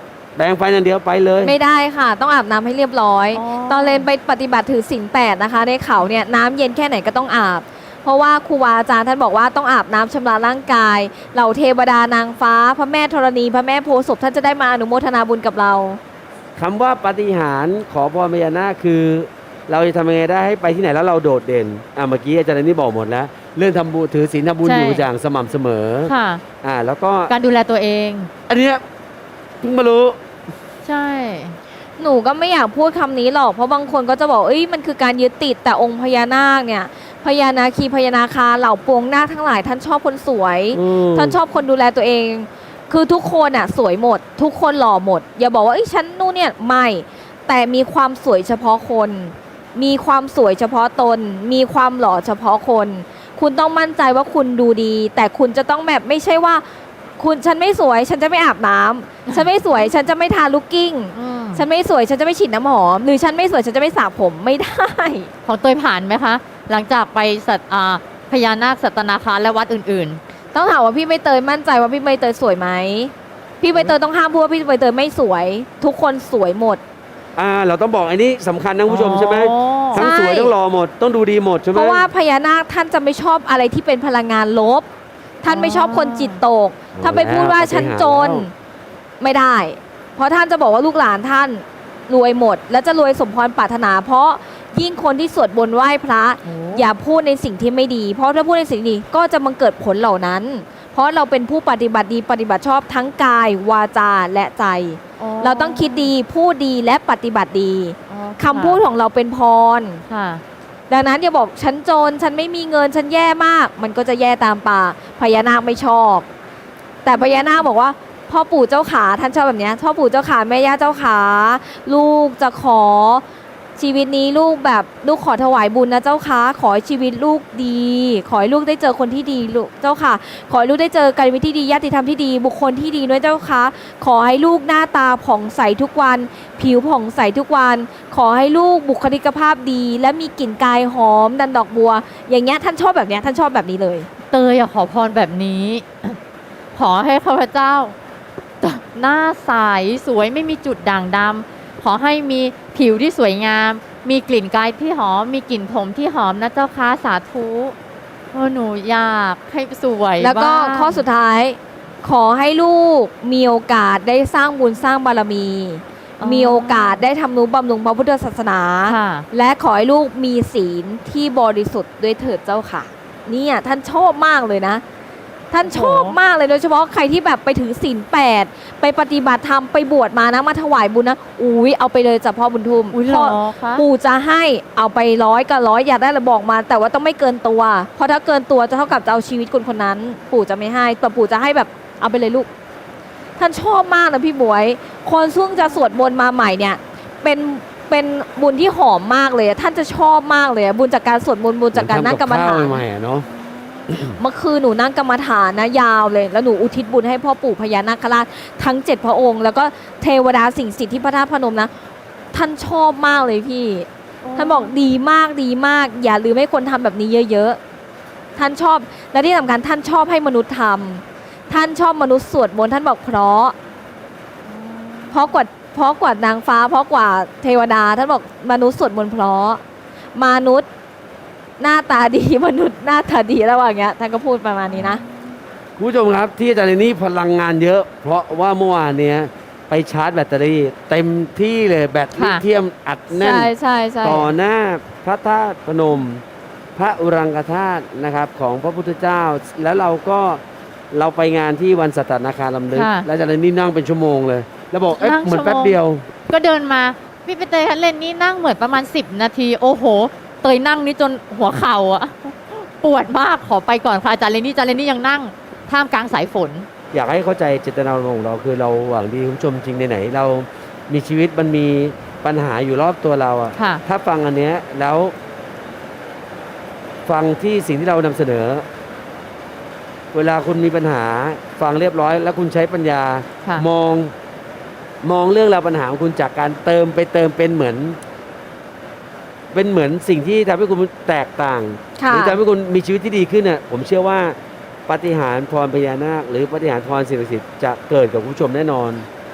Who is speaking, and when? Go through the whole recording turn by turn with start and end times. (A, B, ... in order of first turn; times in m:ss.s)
0:00.4-0:01.6 A
0:01.4-0:16.0 B
0:03.3-0:04.1 C
0:16.6-0:26.1 A
0:24.6-0:25.1 C
0:26.1-0:26.4 C
0:26.6-0:27.3 A
0:27.3-0:28.3 C
0:28.5-0:28.8 A
0:29.6-0:30.2 A
0:30.8-0:31.6 C
0:32.0-0:56.6 B
0:40.7-0:41.4 A
0:57.2-1:05.3 B
0:59.3-0:59.9 C
1:01.2-1:01.6 C
1:05.5-1:10.2 C
1:10.5-1:16.8 B
1:17.4-1:22.1 A
1:18.9-1:20.1 C
1:20.0-1:20.5 B
1:21.7-1:24.9 B
1:25.4-1:28.5 B
1:25.5-1:26.4 C
1:27.0-1:28.5 A
1:29.2-1:50.0 B
1:36.4-1:36.9 C
1:45.2-1:46.1 C
1:48.1-1:48.8 C
1:50.1-1:50.4 C
1:50.9-1:56.3 B
1:57.0-2:03.2 B
1:57.1-1:57.7 C
2:03.8-2:24.1 B
2:24.3-2:26.2 C
2:26.8-2:28.0 C
2:28.6-2:37.8 C
2:38.3-2:41.0 C
2:40.2-2:54.8 B
2:46.2-2:47.0 C
2:48.9-2:49.3 C
2:55.5-3:12.5 B
2:55.6-2:56.2 C
3:02.9-3:03.9 C
3:13.4-3:22.8 B
3:21.7-3:23.3 A
3:23.9-3:24.2 A
3:24.0-3:31.7 B
3:32.3-3:37.6 B
3:34.2-3:34.8 C
3:38.4-3:43.6 B
3:44.5-3:45.4 C
3:45.1-3:49.6 B
3:50.2-3:50.7 B
3:51.6-3:55.0 B
3:54.7-3:55.2 C
3:55.8-4:03.5 A
4:02.2-4:02.4 C
4:03.1-4:04.3 B
4:04.0-4:06.2 A
4:06.8-4:16.1 A
4:12.7-4:13.1 C
4:14.9-4:15.8 C
4:16.3-4:26.7 C
4:26.9-4:35.1 A
4:33.6-4:33.8 C
4:37.1-4:38.7 A
4:40.1-4:44.1 A
4:45.0-4:48.0 A
4:49.5-4:59.1 A
4:52.0-4:52.4 B